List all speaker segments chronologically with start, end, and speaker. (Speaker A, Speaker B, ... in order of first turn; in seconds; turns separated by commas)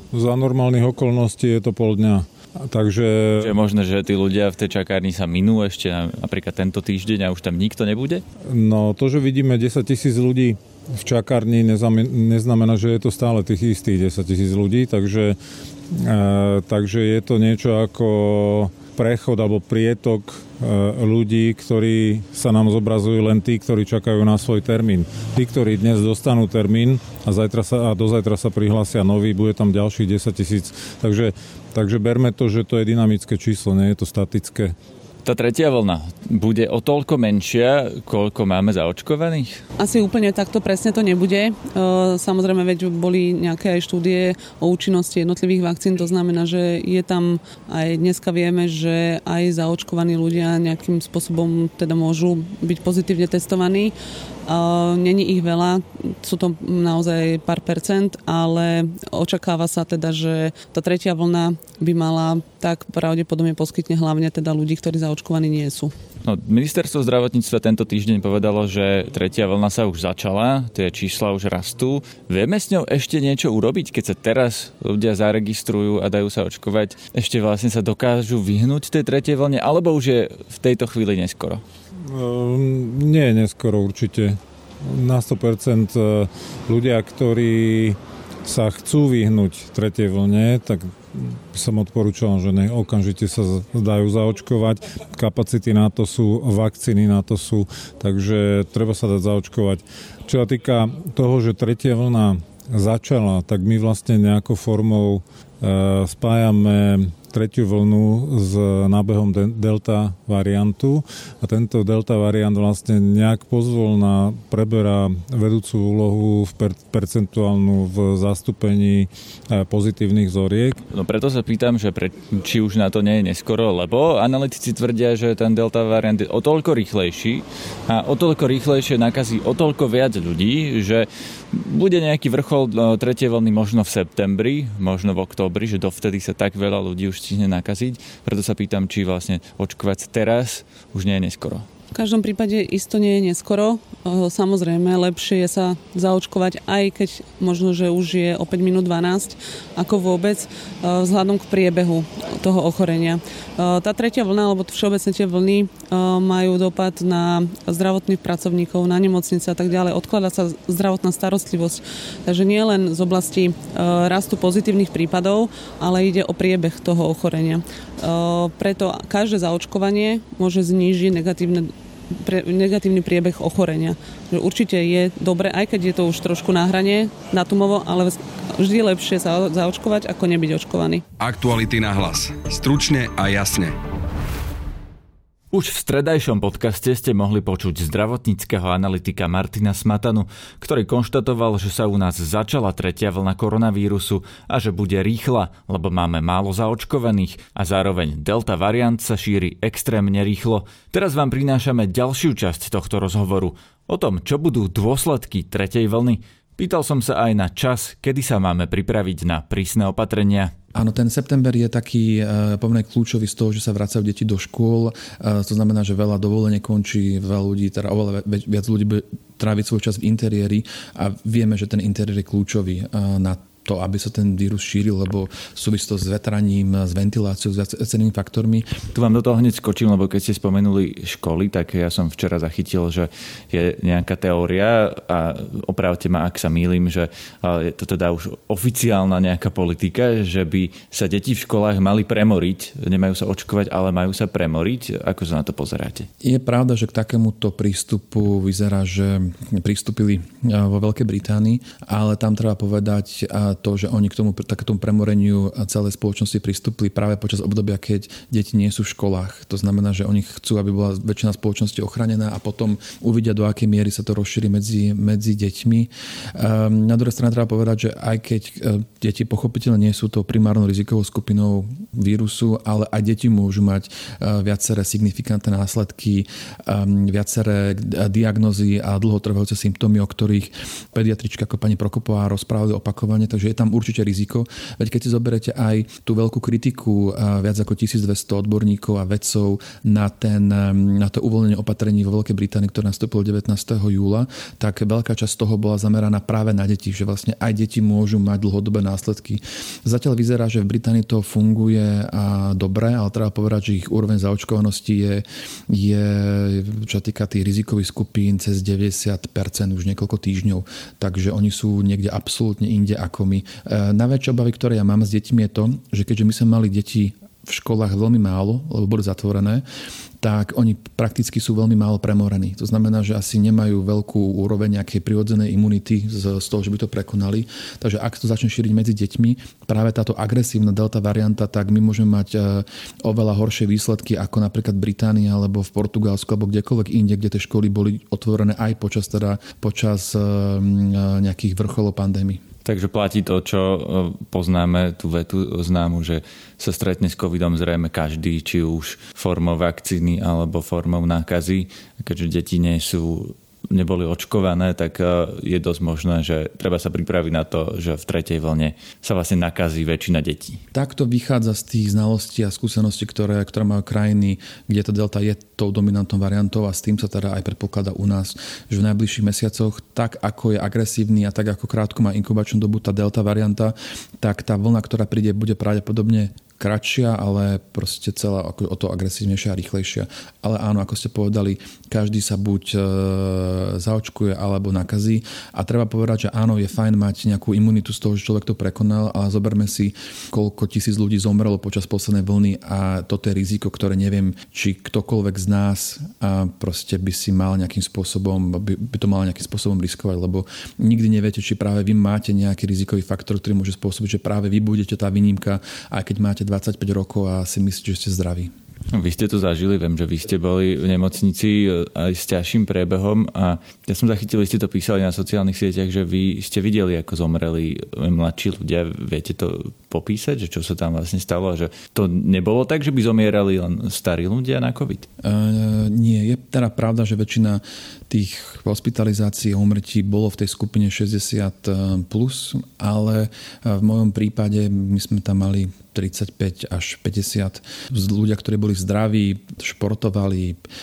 Speaker A: 0.1-3.5, Speaker B: 3.4-8.2, Speaker A: 8.5-15.4, Speaker A: 15.9-34.7, Speaker B: 35.2-39.6, Speaker C: 39.8-53.9, Speaker C: 54.5-65.9, Speaker B: 66.2-81.6, Speaker A: 82.1-120.8, Speaker B: 120.9-141.7, Speaker C: 141.9-181.0, Speaker D: 181.2-183.7, Speaker B: 185.5-210.5, Speaker E: 210.7-228.7, Speaker B: 228.9-246.1, Speaker E: 246.2-319.6, Speaker E: 320.2-342.4, Speaker B: 342.6-360.6, Speaker E: 360.7-408.5, Speaker B: 408.9-425.1, Speaker E: 425.2-440.6